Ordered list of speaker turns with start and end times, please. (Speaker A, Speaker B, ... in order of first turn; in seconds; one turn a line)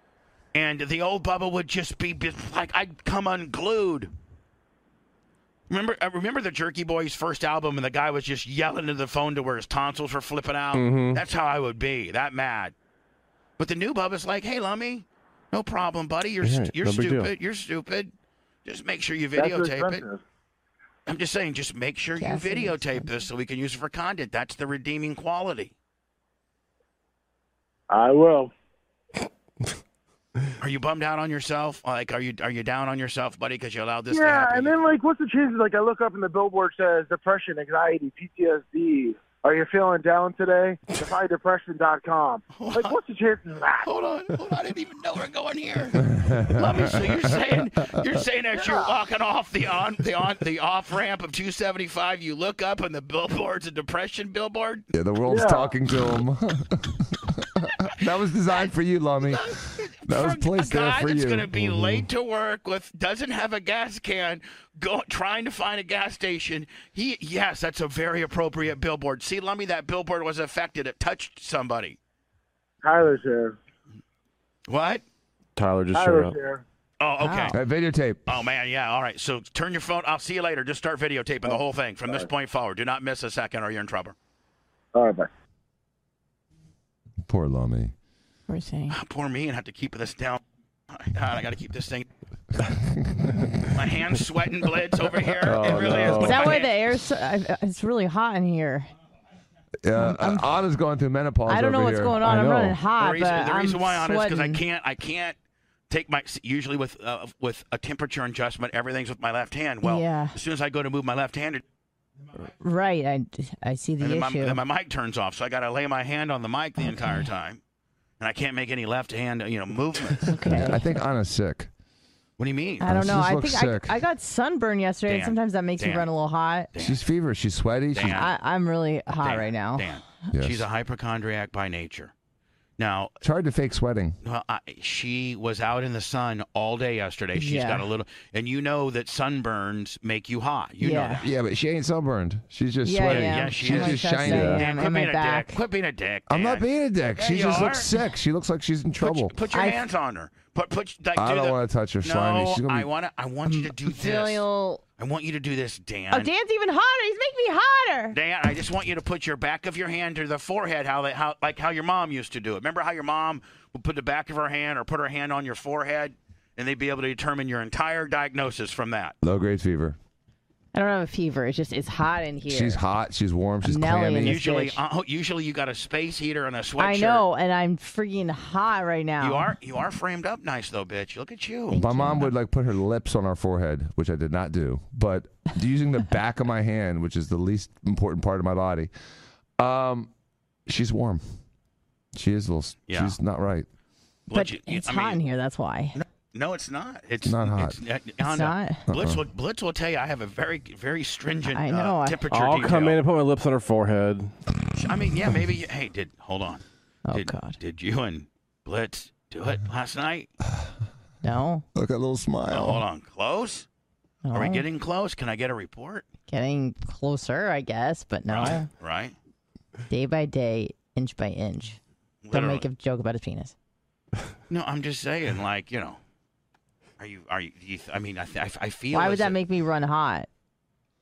Speaker A: 0.5-4.1
Speaker A: 5.7-12.7
Speaker B: 10.7-11.2
Speaker A: 13.6-18.1
Speaker B: 16.4-17.3
Speaker A: 18.6-20.0
Speaker C: 19.4-20.2
Speaker A: 21.1-25.7
Speaker D: 22.2-23.1
Speaker C: 27.9-28.5
Speaker A: 30.6-34.7
Speaker C: 34.1-43.9
Speaker A: 42.5-43.0
Speaker A: 43.8-54.9
Speaker E: 46.1-47.4
Speaker C: 48.5-48.9
Speaker E: 54.9-62.1
Speaker C: 55.3-55.7
Speaker A: 59.3-72.0
Speaker C: 72.8-73.6
Speaker A: 74.7-75.0
Speaker B: 75.6-76.4
Speaker C: 75.9-76.6
Speaker A: 77.0-77.6
Speaker D: 77.2-77.6
Speaker E: 77.5-78.2
Speaker A: 78.3-84.2
Speaker C: 84.9-85.3
Speaker E: 87.2-87.9
Speaker D: 88.5-89.0
Speaker A: 88.9-90.4
Speaker A: 90.9-92.1
Speaker E: 92.7-93.5
Speaker A: 93.7-96.7
Speaker E: 95.5-96.2
Speaker B: 95.5-96.5
Speaker D: 96.2-98.9
Speaker E: 99.8-102.2
Speaker D: 100.0-100.5
Speaker D: 101.5-104.6
Speaker B: 102.2-102.8
Speaker A: 103.0-105.3
Speaker A: 105.9-111.6
Speaker D: 109.8-110.4
Speaker D: 112.6-114.6
Speaker A: 114.0-117.6
Speaker D: 116.8-117.2
Speaker A: 118.2-120.4
Speaker D: 120.3-120.8
Speaker E: 120.5-121.7
Speaker A: 122.4-122.9
Speaker D: 122.8-126.7
Speaker E: 122.8-124.0
Speaker A: 125.1-126.1
Speaker A: 126.7-127.0
Speaker E: 126.8-128.3
Speaker A: 127.9-128.3
Speaker D: 128.1-129.9
Speaker A: 129.2-132.1
Speaker E: 130.3-130.7
Speaker A: 132.8-133.1
Speaker E: 133.2-134.2
Speaker A: 134.2-141.3
Speaker D: 137.3-137.9
Speaker D: 140.8-141.2
Speaker E: 141.2-144.6
Speaker D: 142.8-145.6
Speaker A: 143.1-147.9
Speaker B: 144.2-144.6
Speaker E: 146.3-149.3
Speaker A: 149.0-154.4
Speaker D: 149.5-149.8
Speaker E: 151.2-152.9
Speaker D: 153.5-154.8
Speaker A: 155.0-156.3
Speaker D: 156.1-158.2
Speaker A: 158.1-169.2
Speaker E: 169.2-170.0
Speaker D: 170.7-172.8
Speaker E: 172.5-174.4
Speaker D: 173.6-174.8
Speaker A: 174.2-177.2
Speaker D: 176.8-179.5
Speaker A: 179.2-181.8
Speaker D: 181.7-182.3
Speaker E: 181.7-188.9
Speaker E: 189.6-190.1
Speaker E: 190.7-191.2
Speaker E: 192.1-193.7
Speaker A: 192.9-193.2
Speaker A: 194.3-195.2
Speaker D: 194.3-196.0
Speaker A: 195.9-203.0
Speaker E: 197.2-197.8
Speaker D: 198.2-198.8
Speaker E: 198.9-199.2
Speaker D: 201.5-202.2
Speaker B: 202.3-204.3
Speaker A: 204.8-210.3
Speaker D: 207.1-207.6
Speaker D: 211.2-211.7
Speaker E: 211.8-212.8
Speaker A: 212.5-213.7
Speaker D: 214.2-214.7
Speaker A: 214.3-216.1
Speaker D: 216.3-218.7
Speaker A: 218.3-219.2
Speaker D: 219.9-221.8
Speaker A: 222.2-222.7
Speaker D: 222.3-223.5
Speaker A: 224.5-226.0
Speaker A: 227.0-229.4
Speaker D: 228.9-230.3